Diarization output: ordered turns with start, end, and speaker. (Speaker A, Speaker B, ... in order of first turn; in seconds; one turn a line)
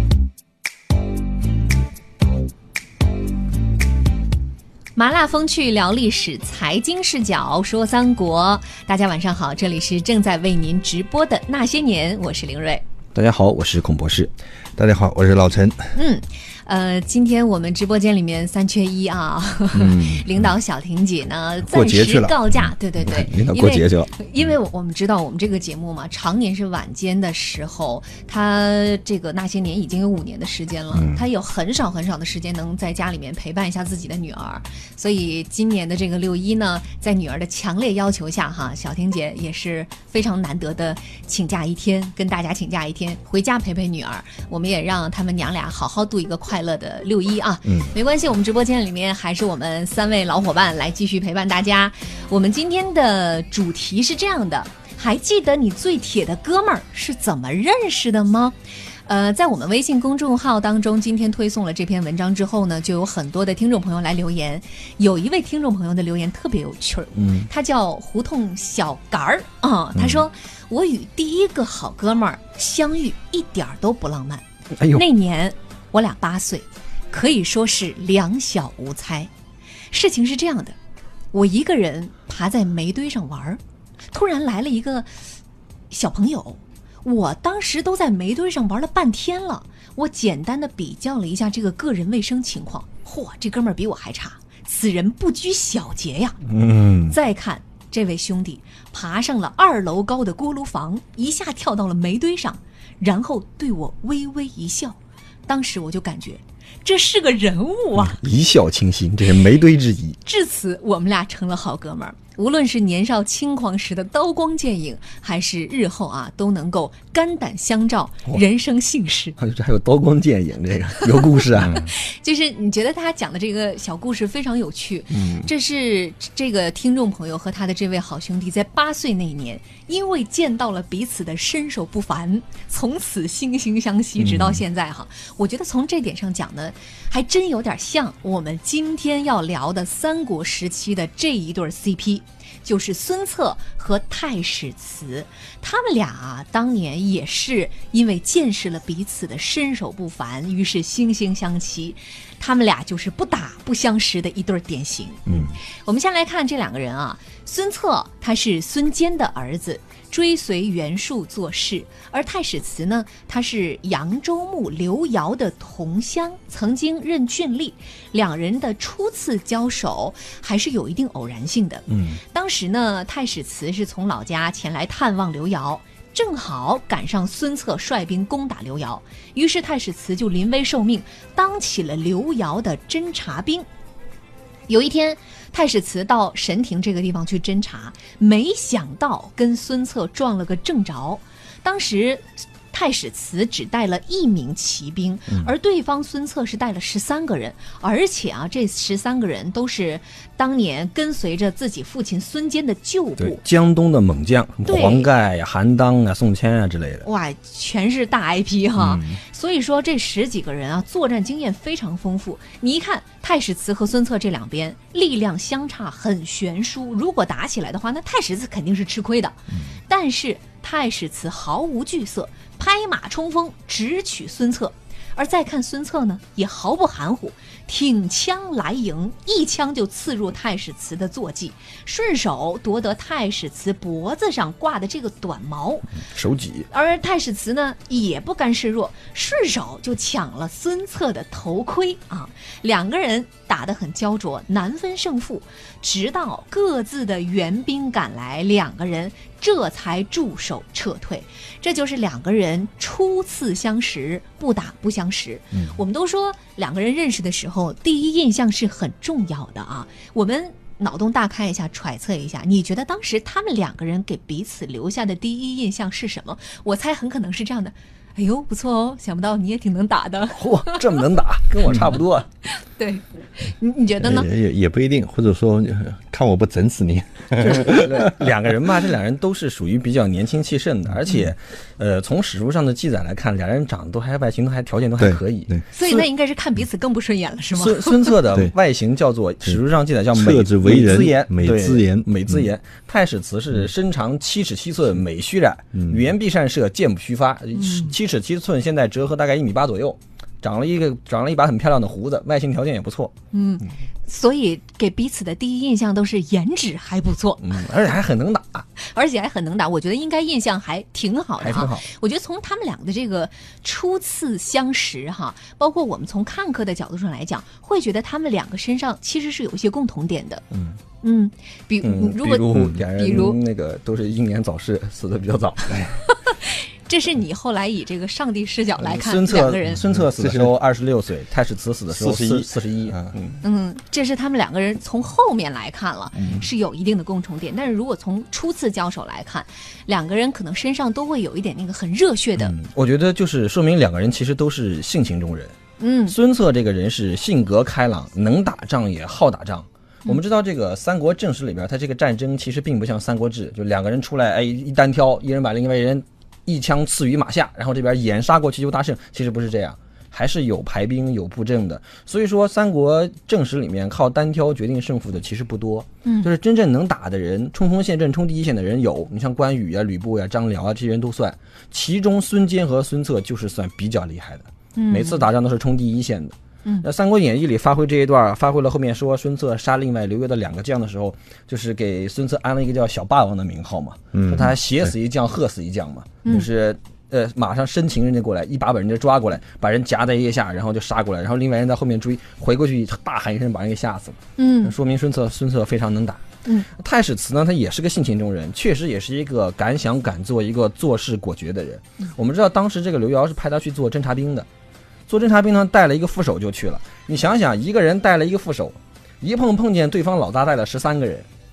Speaker A: 4.9-12.8
Speaker B: 13.1-14.3
Speaker C: 14.8-15.9
Speaker A: 15.9-79.3
Speaker B: 19.7-20.3
Speaker C: 21.6-22.4
Speaker B: 23.0-24.1
Speaker B: 30.9-31.2
Speaker B: 67.2-67.5
Speaker B: 74.7-75.0
Speaker A: 79.9-80.8
Speaker A: 81.3-85.1
Speaker A: 85.9-96.4
Speaker B: 96.5-97.1
Speaker A: 97.0-108.2
Speaker B: 108.0-110.2
Speaker A: 110.2-119.4
Speaker B: 119.4-121.9
Speaker A: 121.9-183.7
Speaker B: 125.1-125.5
Speaker B: 134.2-134.6
Speaker B: 171.9-172.2
Speaker A: 184.7-203.4
Speaker B: 203.2-207.1
Speaker A: 204.7-205.1
Speaker A: 207.0-235.9
Speaker B: 208.8-209.2
Speaker B: 236.1-236.7
Speaker A: 236.7-270.8
Speaker B: 270.3-272.3
Speaker A: 272.4-274.3
Speaker C: 274.0-277.9
Speaker B: 277.4-286.1
Speaker C: 285.0-285.6
Speaker A: 285.7-288.2
Speaker B: 287.6-303.1
Speaker C: 290.1-292.4
Speaker A: 297.6-297.9
Speaker A: 303.3-307.5
Speaker B: 307.4-308.6
Speaker A: 308.8-320.4
Speaker B: 311.4-311.9
Speaker A: 321.0-323.4
Speaker B: 321.8-325.9
Speaker A: 326.1-330.0
Speaker B: 328.8-333.4
Speaker C: 330.2-330.5
Speaker C: 331.9-333.1
Speaker A: 333.4-342.6
Speaker B: 336.1-336.4
Speaker B: 342.4-345.6
Speaker A: 345.8-346.2
Speaker B: 346.1-396.2
Speaker A: 366.0-366.3
Speaker A: 374.7-375.2
Speaker C: 384.1-384.9
Speaker A: 394.4-394.7
Speaker B: 396.8-404.5
Speaker B: 405.1-411.2